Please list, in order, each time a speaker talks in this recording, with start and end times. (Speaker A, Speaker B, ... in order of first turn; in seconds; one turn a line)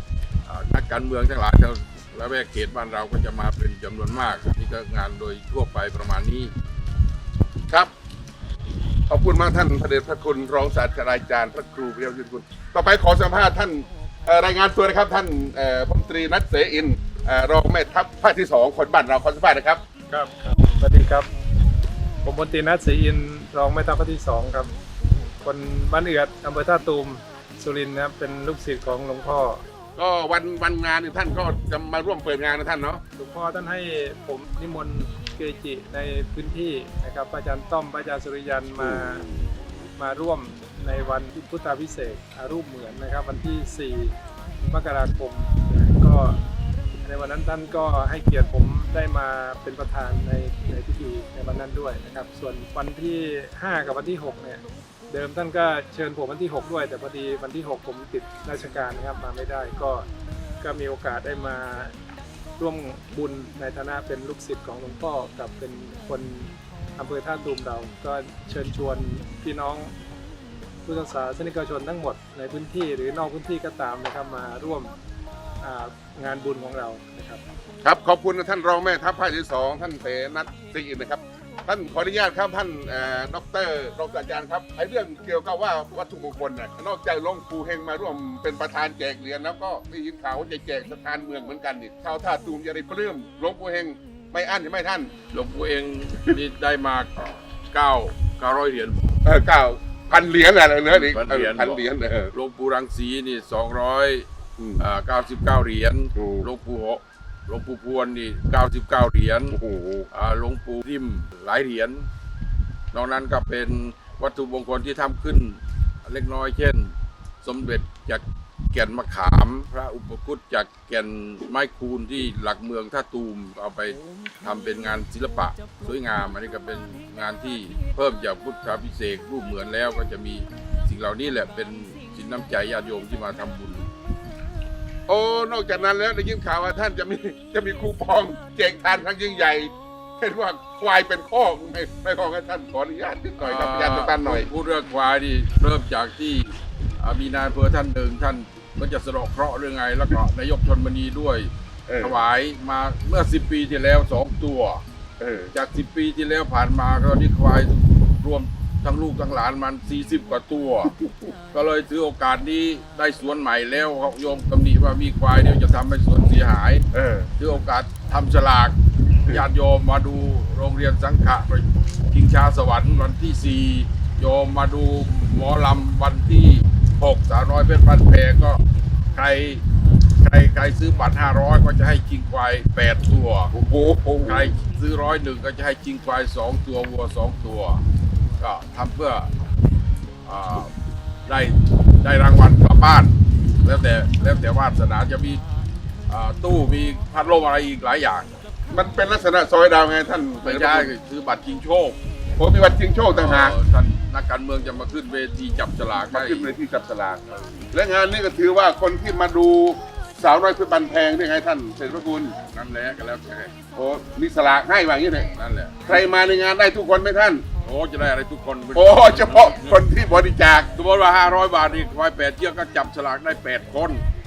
Speaker A: 0.5-6.5
Speaker B: 9.1-19.8
Speaker C: 20.1-21.3
Speaker C: 22.2-24.7
Speaker C: 25.4-29.6
Speaker B: 30.0-33.0
Speaker C: 33.2-39.2
Speaker C: 40.0-44.2
Speaker C: 44.7-46.4
Speaker C: 47.0-60.1
Speaker C: 60.6-61.9
Speaker C: 62.6-69.9
Speaker C: 70.8-74.9
Speaker C: 75.6-77.5
Speaker B: 77.8-95.1
Speaker A: 95.3-99.2
Speaker B: 99.2-102.3
Speaker A: 100.9-104.3
Speaker B: 104.6-104.9
Speaker A: 104.8-109.6
Speaker B: 106.2-106.5
Speaker B: 109.5-110.1
Speaker A: 110.1-112.1
Speaker A: 112.9-133.9
Speaker B: 135.1-144.5
Speaker A: 143.4-154.8
Speaker B: 151.9-152.2
Speaker B: 155.2-155.5
Speaker A: 155.5-160.9
Speaker A: 161.5-166.8
Speaker B: 166.9-167.3
Speaker A: 167.4-178.6
Speaker A: 179.1-179.6
Speaker A: 180.2-183.5
Speaker B: 183.5-184.5
Speaker A: 184.3-187.8
Speaker A: 188.4-189.3
Speaker A: 190.2-190.7
Speaker A: 191.3-195.4
Speaker A: 196.1-198.3
Speaker B: 198.7-200.9
Speaker A: 200.4-202.0
Speaker B: 202.4-203.6
Speaker A: 203.1-206.5
Speaker B: 206.1-207.2
Speaker A: 207.3-207.7
Speaker B: 207.7-212.4
Speaker A: 212.4-213.5
Speaker B: 213.8-215.3
Speaker A: 215.3-216.1
Speaker B: 215.9-217.4
Speaker A: 217.6-219.8
Speaker B: 218.7-220.7
Speaker A: 220.8-224.1